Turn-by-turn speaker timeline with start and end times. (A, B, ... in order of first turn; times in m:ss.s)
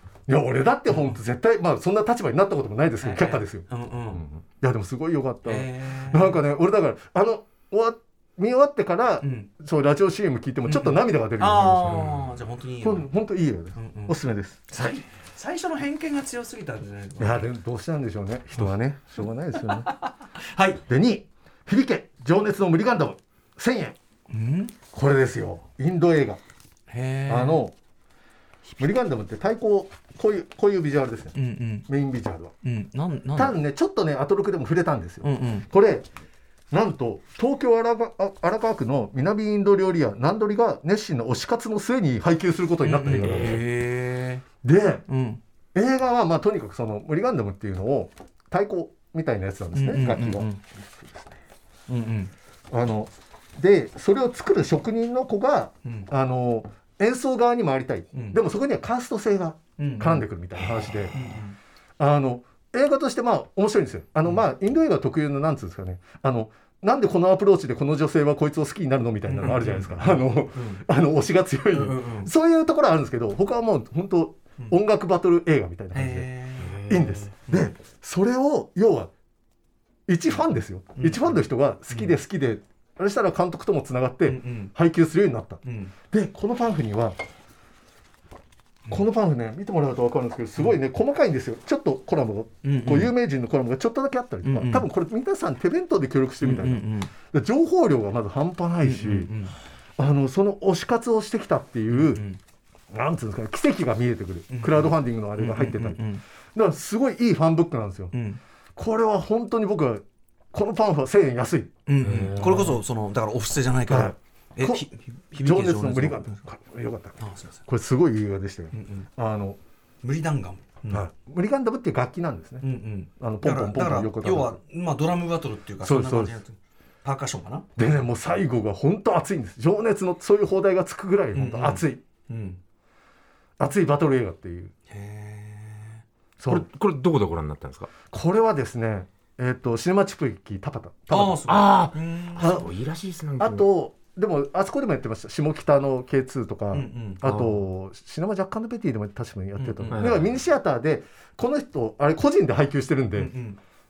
0:00.3-0:12.2 A
0:03.0-0:04.2 B
0:05.4-0:06.4 B
0:09.2-0:09.5 B
0:10.6-0:13.1 B
0:12.8-0:14.7 A
0:13.7-0:14.2 B
0:14.7-0:17.4 B
0:17.2-0:19.9 A
0:19.6-0:20.8 B
0:20.9-0:24.0 A
0:24.3-0:24.7 B
0:24.9-0:26.4 A
0:26.9-0:27.6 B
0:27.3-0:27.7 A
0:28.8-0:31.3 A
0:31.3-0:31.9 B
0:31.9-0:32.5 A
0:32.6-0:33.6 B
0:33.4-0:36.1 A
0:35.2-0:35.7 B
0:36.7-0:43.6 A
0:42.8-0:44.4 B
0:44.6-0:45.0 A
0:45.1-0:45.4 B
0:45.7-0:51.4 A
0:49.7-0:50.6 B
0:51.9-0:52.3 B
0:52.7-1:01.3 A
0:58.1-0:58.4 B
0:59.8-1:00.2 B
1:00.8-1:01.6 B
1:02.0-1:16.3 A
1:09.3-1:10.8 B
1:11.7-1:12.3 B
1:15.9-1:17.0 B
1:16.6-1:17.1 C
1:16.8-1:19.1 A
1:20.1-1:27.2 A
1:21.0-1:22.1 B
1:24.3-1:24.7 B
1:25.6-1:25.9 B
1:28.9-1:39.3 A
1:32.6-1:33.1 B
1:34.4-1:34.8 B
1:36.4-1:37.1 B
1:38.8-1:39.5 B
1:40.0-1:42.2 A
1:41.9-1:42.4 B
1:42.9-1:46.0 A
1:44.5-1:46.2 B
1:46.5-1:48.1 A
1:48.1-1:48.4 B
1:48.8-1:52.8 A
1:51.9-1:56.4 B
1:52.0-1:52.6 C
1:53.9-1:59.6 A
1:57.2-1:57.6 B
1:58.7-1:59.1 B
2:00.0-2:01.0 B
2:00.9-2:02.6 A
2:02.6-2:07.6 B
2:03.2-2:04.6 A
2:05.8-2:06.4 A
2:07.8-2:12.0 A
2:11.3-2:12.6 B
2:13.6-2:14.7 A
2:14.9-2:16.0 B
2:16.4-2:16.6 A
2:16.5-2:17.9 C
2:18.1-2:21.6 A
2:21.1-2:22.5 B
2:21.5-2:23.7 C
2:22.4-2:22.7 A
2:23.4-2:33.3 A
2:26.7-2:27.5 B
2:29.6-2:30.0 B
2:29.9-2:30.3 C
2:33.1-2:33.6 B